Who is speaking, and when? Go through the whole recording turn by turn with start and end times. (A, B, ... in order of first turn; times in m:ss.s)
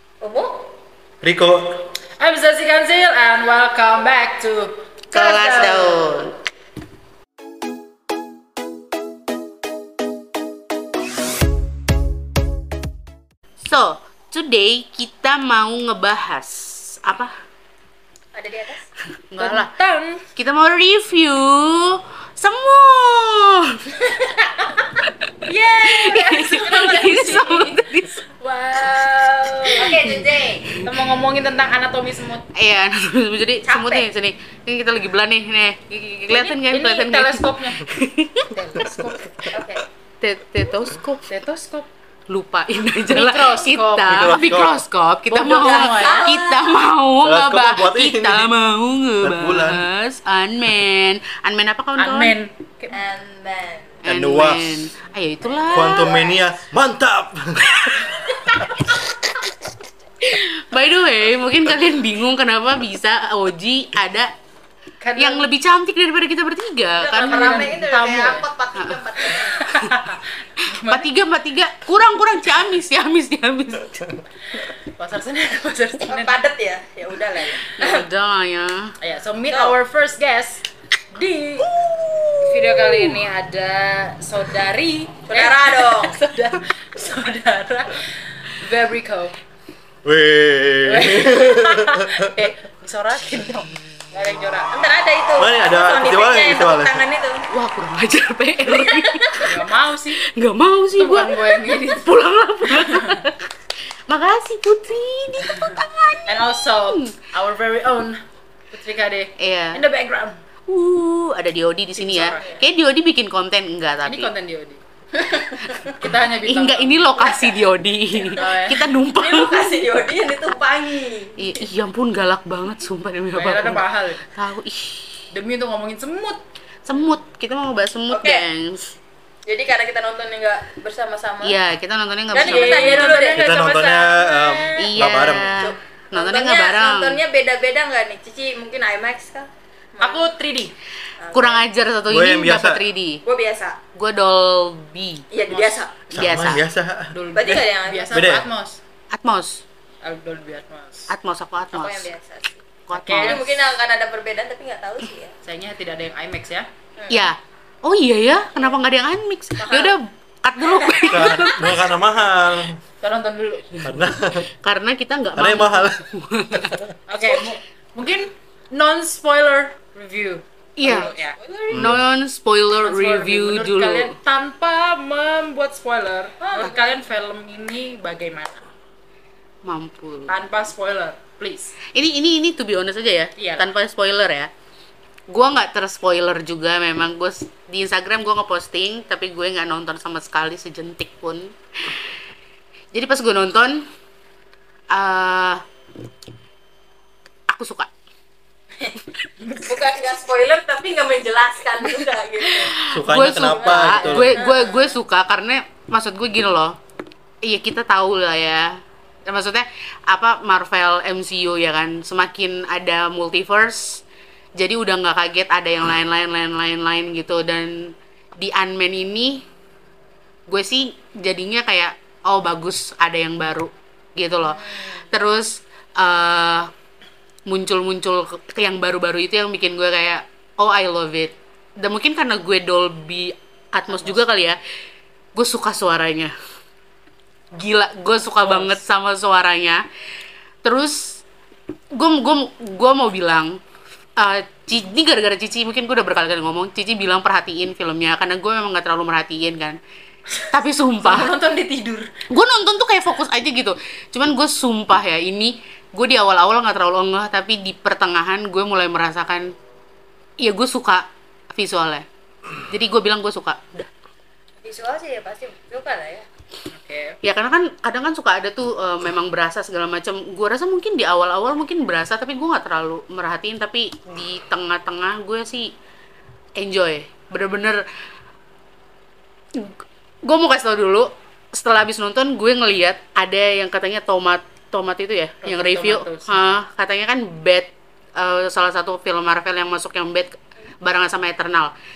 0:00.2-0:00.7 A
0:01.2-0:01.9 B
0:02.2-0:06.0 C
0:05.1-0:06.4 D
0:13.6-0:17.4 D
0:18.3-0:18.9 A
0:19.3-0:19.7 D
0:19.4-0:20.2 C
0:20.4-0:24.1 D
0:25.0-0:25.3 D
0:25.4-0:27.6 A
0:25.8-0:28.3 D
0:26.5-0:30.1 C
0:29.7-0:30.8 A
0:30.7-0:31.0 D
0:30.8-0:32.5 C
0:32.5-0:38.5 D
0:33.7-0:34.1 A
0:36.3-0:37.9 C
0:38.5-0:39.5 C
0:38.8-0:39.1 B
0:39.5-0:39.8 A
0:40.2-0:41.3 D
0:41.3-0:41.9 C
0:42.3-0:52.4 D
0:43.1-0:44.4 C
0:44.1-0:44.8 B
0:45.3-0:46.3 C
0:45.3-0:46.8 A
0:47.2-0:48.5 B
0:49.2-0:49.9 B
0:52.0-0:53.0 C
0:52.9-0:54.0 A
0:54.0-0:54.9 B
0:54.0-0:56.2 D
0:55.5-0:56.4 A
0:55.7-0:58.1 B
0:58.1-0:58.6 A
1:00.2-1:04.3 D
1:05.0-1:05.5 C
1:05.2-1:07.8 D
1:07.0-1:09.7 A
1:07.2-1:08.5 C
1:08.8-1:09.0 D
1:09.4-1:11.1 C
1:09.7-1:10.0 D
1:10.6-1:14.1 D
1:14.5-1:16.4 C
1:16.0-1:18.1 A
1:17.8-1:19.0 D
1:19.0-1:21.8 C
1:19.5-1:19.8 A
1:21.8-1:22.3 B
1:22.4-1:29.4 C
1:25.3-1:26.2 A
1:30.0-1:32.4 B
1:30.9-1:34.9 C
1:34.7-1:37.4 A
1:35.4-1:37.0 B
1:37.5-1:39.5 D
1:38.7-1:39.5 A
1:39.4-1:40.2 C
1:40.2-1:43.5 D
1:41.0-1:42.1 C
1:42.7-1:43.2 C
1:44.1-1:47.2 D
1:45.4-1:50.4 C
1:49.4-1:49.8 D
1:50.7-1:54.3 D
1:52.0-1:52.6 C
1:52.2-1:52.6 A
1:54.0-1:54.8 C
1:55.2-1:55.9 A
1:55.7-1:57.3 C
1:56.5-1:59.9 D
1:57.2-1:58.5 A
1:58.4-1:58.9 C
1:59.1-2:01.7 A
2:01.4-2:05.2 D
2:03.3-2:04.3 C
2:05.3-2:06.4 C
2:06.9-2:09.0 D
2:08.1-2:08.5 A
2:09.4-2:11.6 A
2:11.4-2:13.2 D
2:12.3-2:13.5 A
2:12.4-2:14.9 C
2:13.4-2:15.7 B
2:14.8-2:17.2 D
2:15.1-2:20.3 A
2:20.0-2:20.8 C
2:21.2-2:21.7 A
2:21.3-2:23.2 D
2:22.1-2:22.9 B
2:23.2-2:23.8 A
2:24.0-2:25.2 D
2:25.3-2:25.9 A
2:25.5-2:25.9 C
2:26.1-2:27.6 B
2:26.1-2:26.6 D
2:27.1-2:28.8 C
2:27.3-2:28.3 A
2:28.1-2:28.5 B
2:29.1-2:29.6 D
2:30.0-2:31.1 C
2:31.1-2:32.1 D
2:31.7-2:35.3 A
2:32.9-2:33.5 D
2:33.0-2:33.5 C
2:35.4-2:36.7 C
2:37.0-2:37.3 A
2:37.1-2:41.9 D
2:38.6-2:38.8 A
2:39.6-2:40.0 A
2:40.6-2:41.5 A
2:41.1-2:42.8 B
2:43.0-2:43.9 C
2:43.8-2:47.0 D
2:43.8-2:44.5 B
2:45.4-2:46.9 B
2:47.1-2:51.4 C
2:50.8-2:51.1 D
2:50.8-2:52.0 A
2:51.7-2:52.0 B
2:51.7-2:54.2 D
2:52.8-2:58.6 C
2:56.4-2:56.9 A
2:59.6-3:00.4 D
3:00.3-3:01.8 C
3:01.9-3:04.5 D
3:03.4-3:03.7 C
3:05.3-3:12.2 D
3:12.9-3:13.9 D
3:14.9-3:15.6 D
3:17.5-3:17.9 D
3:19.5-3:19.8 C
3:19.6-3:22.8 A
3:22.4-3:26.8 D
3:22.8-3:24.4 B
3:23.4-3:25.0 A
3:27.4-3:34.0 D
3:34.6-3:39.4 D
3:40.5-3:46.7 D
3:44.4-3:45.1 A
3:47.5-3:54.6 D
3:55.4-3:56.3 D
3:57.6-3:59.8 D
3:58.4-3:58.8 C
4:00.6-4:01.2 D
4:01.9-4:03.6 D
4:04.2-4:09.8 D
4:10.3-4:12.1 C
4:10.5-4:11.3 D
4:12.3-4:19.5 D
4:20.4-4:22.1 D
4:22.7-4:23.9 D
4:24.6-4:26.3 A
4:26.7-4:27.2 C
4:27.2-4:35.7 D
4:36.6-4:37.8 D
4:39.5-4:51.7 D
4:45.4-4:46.6 C